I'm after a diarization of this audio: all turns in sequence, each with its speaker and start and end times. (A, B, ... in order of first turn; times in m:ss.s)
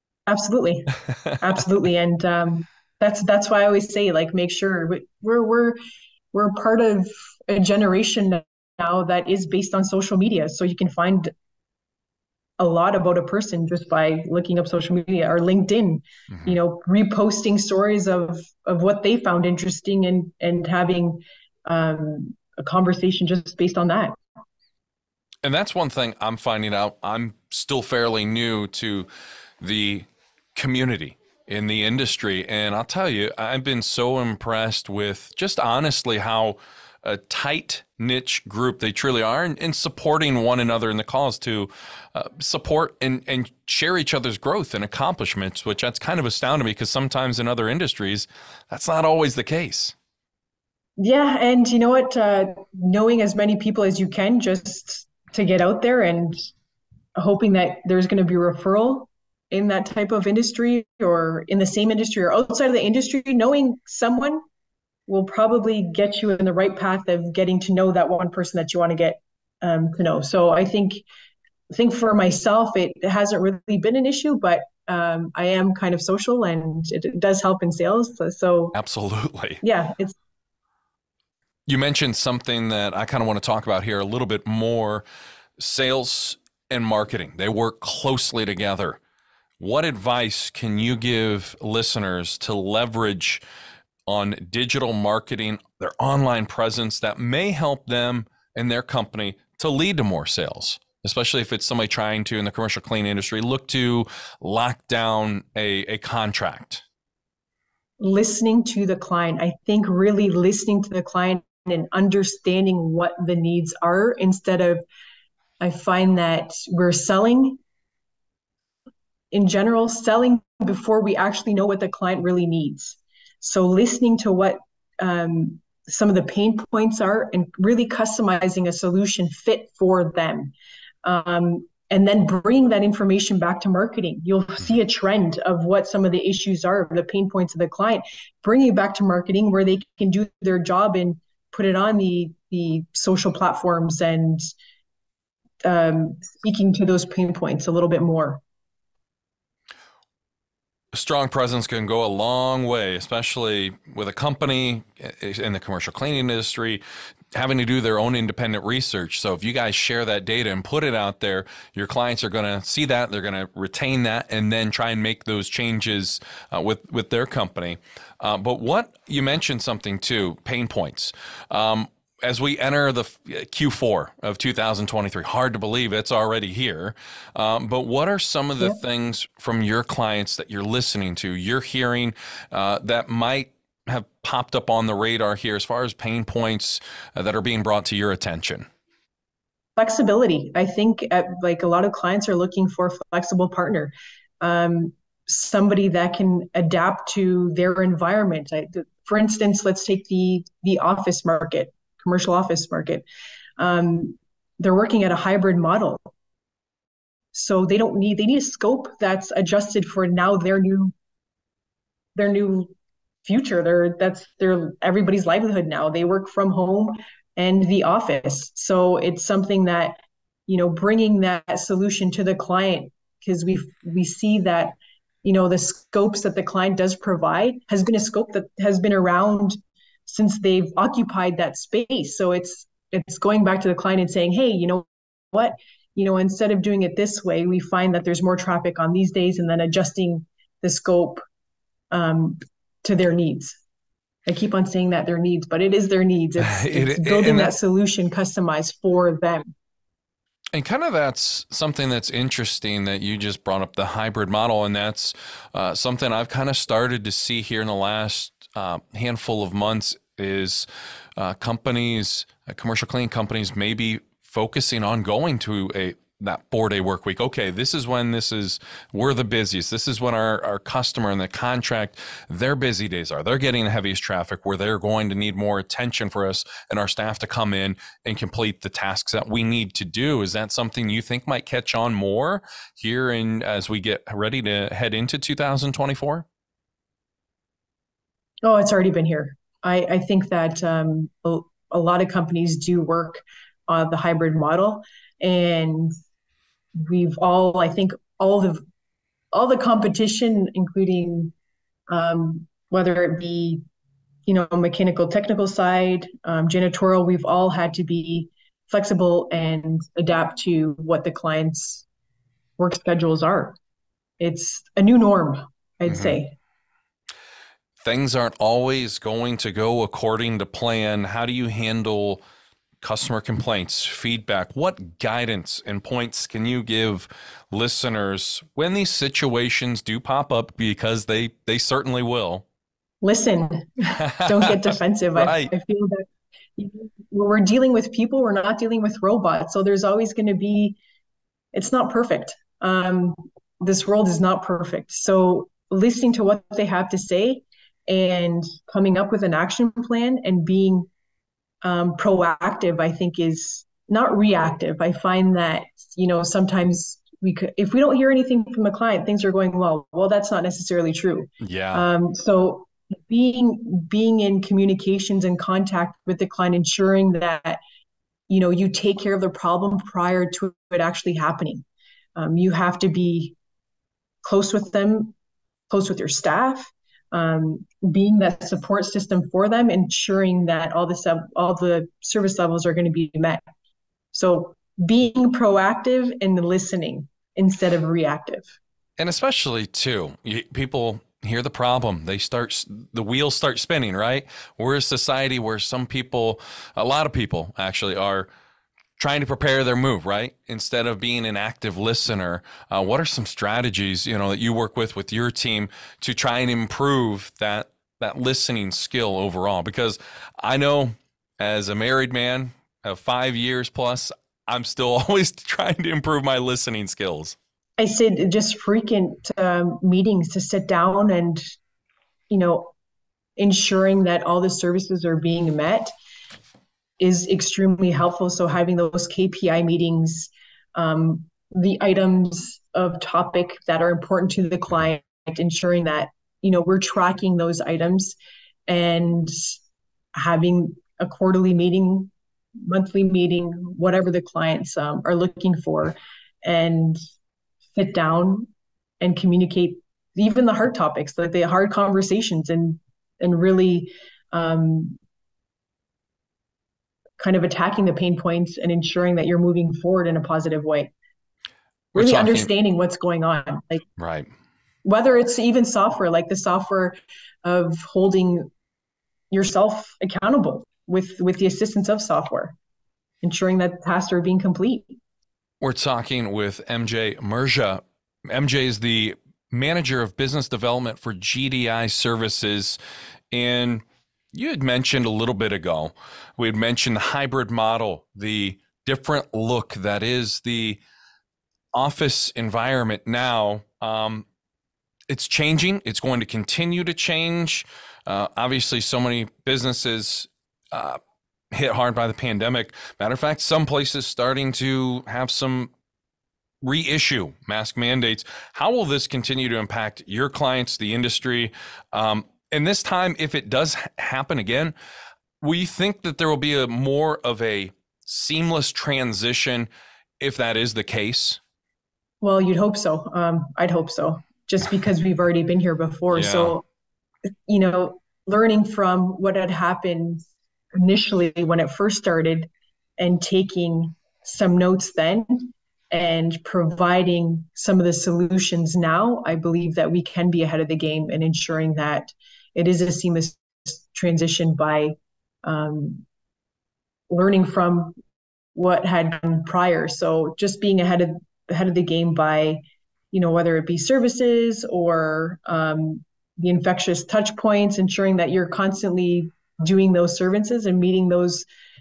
0:00.3-0:05.8 A
0:01.1-0:01.4 B
0:06.3-0:11.3 A
0:12.6-0:24.2 A
0:25.4-0:29.1 B
0:29.6-0:49.9 B
0:51.0-0:56.5 A
0:57.2-1:04.4 A
1:05.1-1:11.0 A
1:11.7-1:18.7 A
1:18.7-1:19.6 B
1:19.6-1:20.2 A
1:21.7-1:25.0 B
1:25.6-1:29.0 B
1:29.6-1:33.4 B
1:34.1-1:46.8 B
1:48.0-1:54.8 A
1:55.6-1:57.6 A
1:59.3-2:24.5 A
2:25.6-2:28.4 A
2:30.9-2:36.8 B
2:37.3-3:08.7 B
3:09.8-3:23.0 A
3:23.6-3:26.1 A
3:27.3-3:30.9 A
3:32.2-3:32.7 A
3:33.2-4:01.2 A
4:01.9-4:03.6 A
4:04.2-4:09.5 A
4:06.4-4:07.6 B
4:10.5-4:20.6 B
4:21.2-4:46.2 B
4:48.4-4:55.9 A
4:56.8-4:58.6 A
4:59.3-5:01.3 A
5:01.9-5:03.6 A
5:04.2-5:11.8 A
5:12.6-5:13.6 A
5:14.2-5:16.3 A
5:15.9-5:16.2 B
5:17.8-5:22.2 B
5:22.8-5:32.4 B
5:33.0-5:40.8 A
5:33.9-5:35.5 B
5:41.5-5:50.9 A
5:51.6-6:07.6 A
6:01.4-6:01.9 B
6:08.3-6:11.6 A
6:12.2-6:13.4 A
6:14.2-6:15.1 A
6:15.7-6:23.4 A
6:24.1-6:28.4 A
6:29.0-6:38.3 B
6:39.0-6:57.4 B
6:57.8-7:01.4 A
7:02.3-7:02.7 A
7:03.4-7:05.9 A
7:07.0-7:18.2 A
7:18.7-7:19.4 A
7:20.1-7:22.1 A
7:22.6-7:27.0 A
7:27.7-7:28.5 A
7:29.0-7:35.0 A
7:37.2-7:40.9 A
7:41.9-7:43.8 A
7:41.9-7:42.5 B
7:44.0-7:44.3 B
7:44.8-7:48.5 A
7:49.3-7:52.6 A
7:53.2-7:55.0 A
7:55.6-8:02.8 B
8:03.3-8:10.8 B
8:11.7-8:14.2 B
8:15.1-8:21.0 B
8:21.5-8:25.7 B
8:26.6-8:34.7 B
8:35.4-8:39.7 B
8:40.2-8:41.4 B
8:42.2-8:46.6 A
8:46.1-8:46.6 B
8:47.4-9:06.0 A
9:07.1-9:08.0 A
9:08.5-9:21.5 A